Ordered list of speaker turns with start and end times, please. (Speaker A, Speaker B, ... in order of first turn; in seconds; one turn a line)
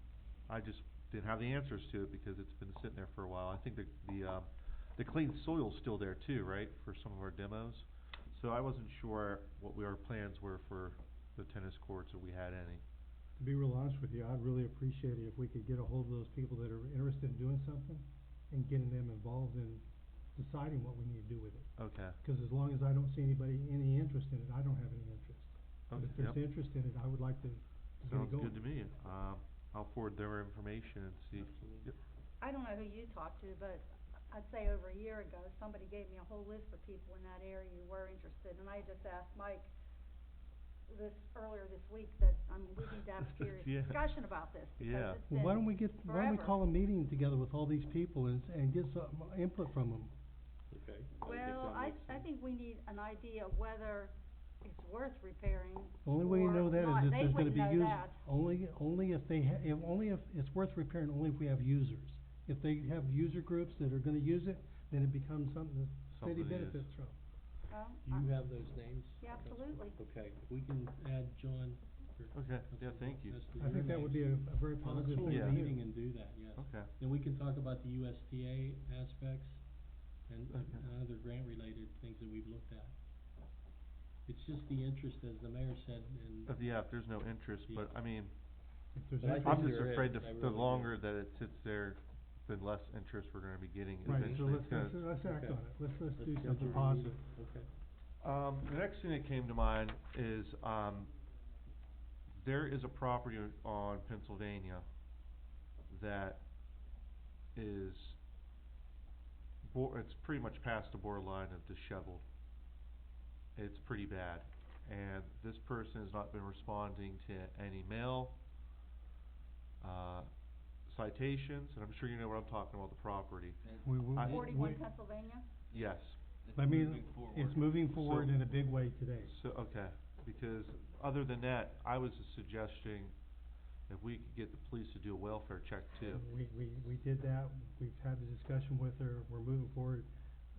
Speaker A: 0.5-12.8
Speaker B: 13.4-28.6
Speaker A: 21.8-22.2
Speaker A: 25.9-26.4
Speaker A: 28.1-32.0
Speaker C: 31.4-31.9
Speaker D: 32.4-39.7
Speaker D: 40.9-46.6
Speaker A: 43.4-44.1
Speaker A: 44.8-45.2
Speaker B: 45.3-50.1
Speaker C: 50.7-52.3
Speaker D: 51.2-58.2
Speaker B: 56.0-67.2
Speaker A: 66.1-66.9
Speaker D: 67.7-68.3
Speaker C: 68.0-79.6
Speaker D: 69.2-70.0
Speaker A: 72.3-73.4
Speaker B: 73.6-75.8
Speaker A: 75.2-75.6
Speaker A: 76.5-76.9
Speaker C: 80.3-82.9
Speaker A: 80.5-80.8
Speaker C: 84.3-86.5
Speaker A: 86.5-88.3
Speaker B: 88.9-89.9
Speaker C: 89.2-91.0
Speaker A: 89.4-95.0
Speaker B: 94.0-97.2
Speaker C: 95.2-95.6
Speaker C: 96.2-97.7
Speaker A: 98.2-101.1
Speaker A: 102.3-104.8
Speaker A: 105.9-106.5
Speaker A: 107.5-108.2
Speaker A: 109.6-112.2
Speaker A: 113.5-118.4
Speaker A: 119.8-120.3
Speaker A: 120.9-123.6
Speaker E: 123.6-124.8
Speaker B: 123.8-124.8
Speaker A: 124.1-124.4
Speaker D: 124.2-125.5
Speaker E: 125.7-127.9
Speaker A: 125.7-126.2
Speaker B: 126.5-129.3
Speaker A: 127.9-128.4
Speaker A: 129.2-133.1
Speaker A: 133.9-136.2
Speaker B: 136.0-140.1